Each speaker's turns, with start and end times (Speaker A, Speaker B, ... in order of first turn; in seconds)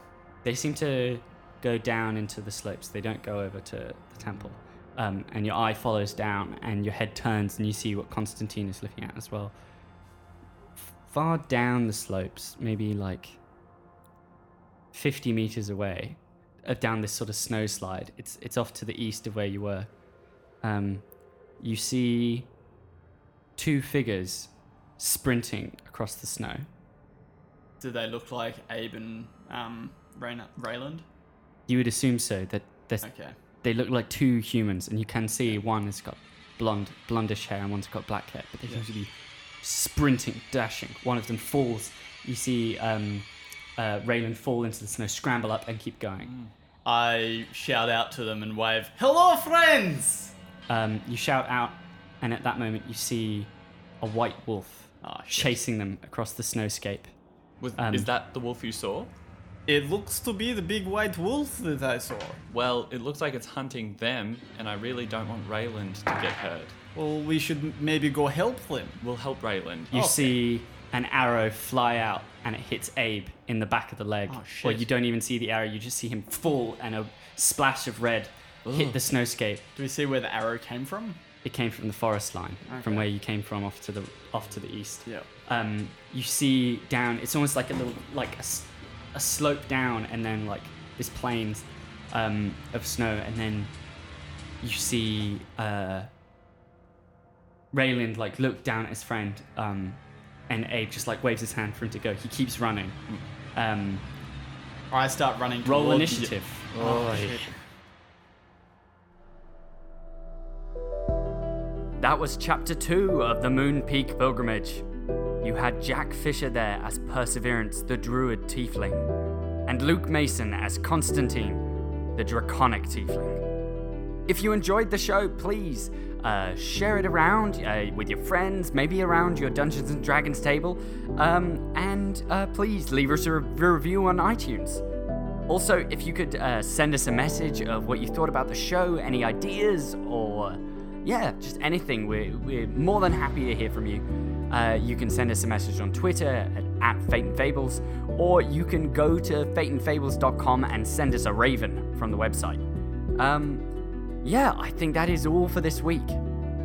Speaker A: 0.4-9.5, 10.8-13.4, 14.9-19.9, 20.6-21.0, 21.6-22.5, 23.6-26.7, 31.7-33.1, 33.6-43.2, 43.8-46.3, 50.7-57.1, 57.8-58.1, 69.9-79.7, 81.4-93.7, 94.6-96.1, 97.7-103.0, 103.5-104.0, 105.6-107.4, 112.0-114.8, 115.4-119.1, 119.7-123.4, 124.3-134.8, 135.5-152.6, 153.2-153.7, 154.2-156.2
Speaker B: 27.8-31.1, 33.0-33.4, 46.8-50.3, 55.0-55.6, 59.7-62.4, 66.9-69.0, 69.9-70.3, 74.3-74.9, 79.8-81.2, 82.7-83.1, 104.9-107.4
Speaker C: 46.2-46.5, 57.6-59.1, 62.5-66.8, 69.0-70.2, 78.6-79.0, 106.7-107.4